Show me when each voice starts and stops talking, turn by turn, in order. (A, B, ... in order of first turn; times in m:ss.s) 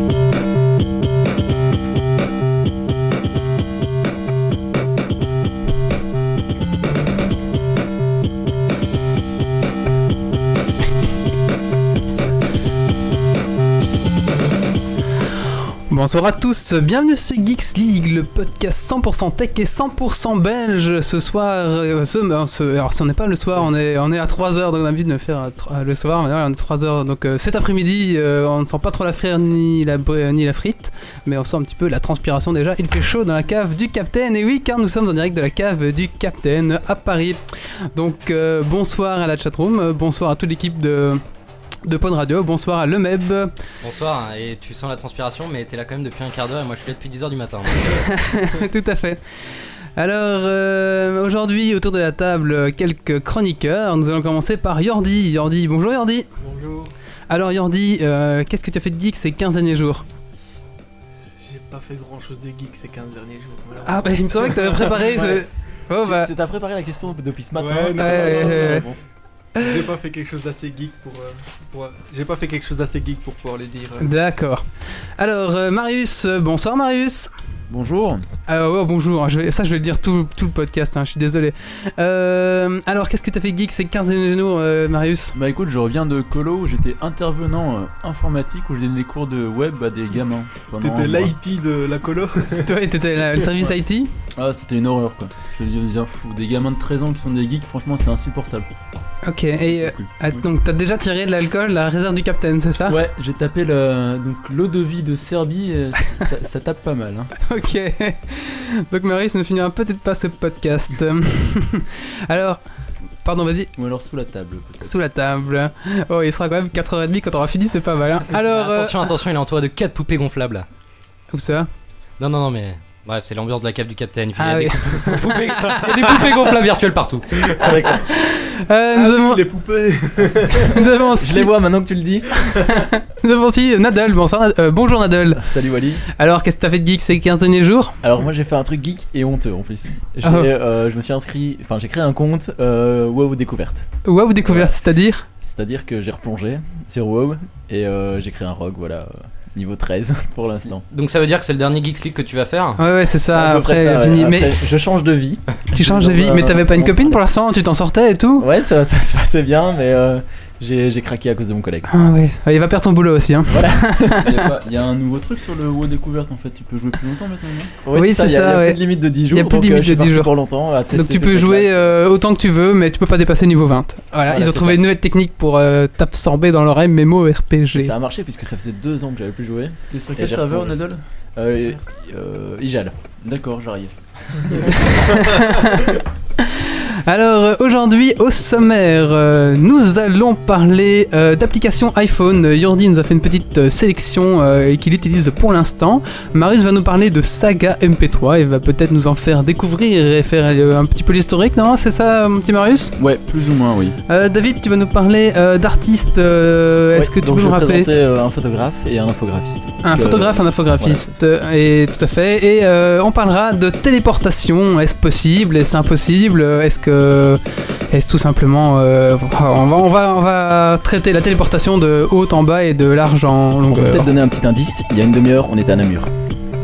0:15.9-0:41.2 A
0:41.8-0:43.5 A
0:43.8-0:48.2 B
0:47.9-0:56.3 A
0:56.4-0:56.9 C
0:57.3-1:00.0 A
1:01.5-1:05.3 C
1:03.8-1:06.3 A
1:05.2-1:05.4 D
1:06.0-1:09.0 D
1:07.6-1:08.9 C
1:08.0-1:08.9 A
1:09.6-1:14.1 C
1:14.0-1:14.6 A
1:15.2-1:17.3 A
1:17.7-1:18.2 E
1:18.5-1:25.4 A
1:25.3-1:31.3 E
1:30.8-1:32.7 C
1:32.6-1:34.1 A
1:34.4-1:38.7 E
1:39.2-1:43.0 A
1:39.7-1:40.5 E
1:42.9-1:47.3 E
1:47.5-1:52.6 A
1:53.2-1:53.7 A
1:53.8-1:55.0 E
1:54.8-1:59.0 A
1:58.5-2:00.7 B
2:01.3-2:01.7 A
2:02.2-2:07.3 B
2:04.4-2:06.3 A
2:07.6-2:08.0 D
2:08.1-2:09.4 A
2:08.9-2:10.8 C
2:10.6-2:11.5 A
2:11.2-2:12.8 D
2:12.7-2:15.5 A
2:15.4-2:16.0 D
2:16.1-2:18.0 A
2:18.0-2:23.9 D
2:20.2-2:20.5 A
2:24.0-2:25.3 A
2:24.4-2:24.7 D
2:25.4-2:30.8 D
2:30.9-2:32.8 B
2:32.8-2:34.6 A
2:33.2-2:37.2 D
2:35.7-2:38.5 A
2:38.4-2:42.1 D
2:41.9-2:44.5 A
2:43.5-2:44.2 D
2:44.2-2:47.7 E
2:47.8-2:52.0 D
2:48.0-2:50.3 A
2:50.9-2:57.9 A
2:54.3-2:54.9 D
2:57.8-3:00.8 D
2:59.9-3:01.0 E
3:01.4-3:03.0 D
3:03.2-3:04.9 E
3:04.7-3:22.9 A
3:23.0-3:24.0 E
3:24.1-3:27.9 A
3:26.9-3:31.2 D
3:29.8-3:37.4 A
3:37.9-3:44.1 A
3:43.6-3:46.1 D